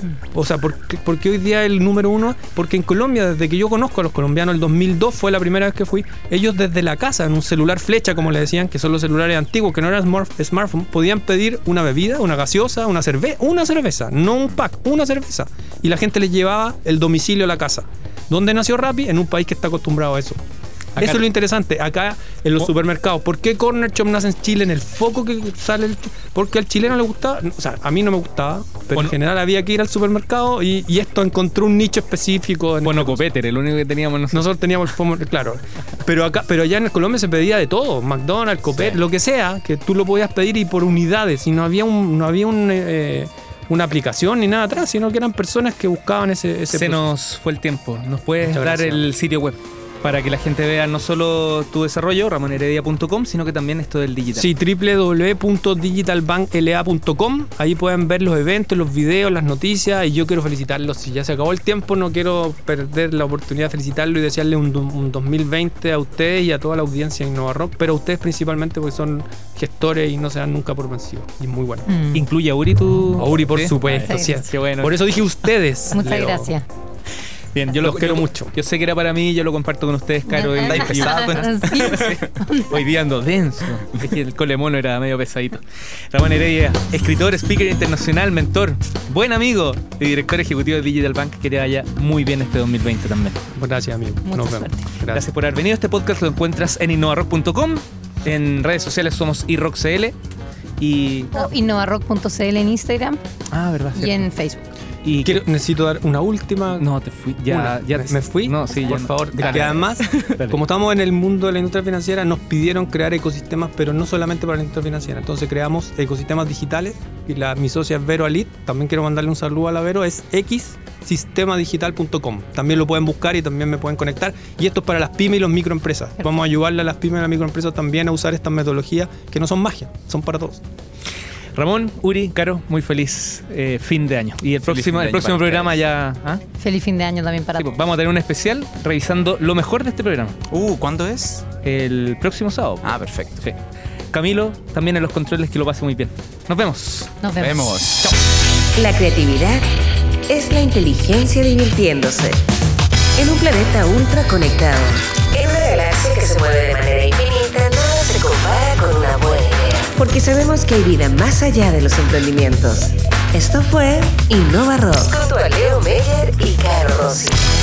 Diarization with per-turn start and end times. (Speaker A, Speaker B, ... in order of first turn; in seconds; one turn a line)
Speaker A: 0.3-20.4
Speaker A: 20.9-33.2
Speaker B: 21.0-21.2
Speaker B: 32.8-34.5
Speaker A: 34.3-47.1
Speaker B: 38.7-39.0
Speaker B: 46.7-54.5
Speaker A: 48.4-49.0
Speaker A: 54.4-71.9
Speaker C: 71.9-72.2
Speaker B: 72.1-75.0
Speaker A: 73.2-76.5
Speaker C: 74.1-74.3
Speaker C: 75.9-76.6
Speaker B: 77.5-93.5
Speaker A: 77.8-78.5
Speaker C: 80.3-82.7
Speaker D: 80.5-82.2
Speaker A: 93.5-95.2
Speaker C: 94.2-94.8
Speaker B: 95.1-100.1
Speaker B: 100.8-101.3
Speaker C: 101.3-103.2
Speaker B: 103.5-104.2
Speaker C: 103.9-104.7
Speaker B: 105.0-105.4
Speaker A: 105.2-106.9
Speaker B: 106.8-110.6
Speaker A: 107.5-130.6
Speaker B: 131.5-136.4
Speaker D: 134.6-135.8
Speaker C: 136.6-137.7
Speaker B: 137.6-140.3
Speaker D: 140.5-141.4
Speaker B: 141.6-143.6
Speaker D: 142.8-143.5
Speaker B: 144.1-147.1
Speaker C: 147.2-147.8
Speaker D: 147.4-148.1
Speaker E: 148.8-149.7
Speaker E: 150.3-152.4
Speaker E: 153.2-167.5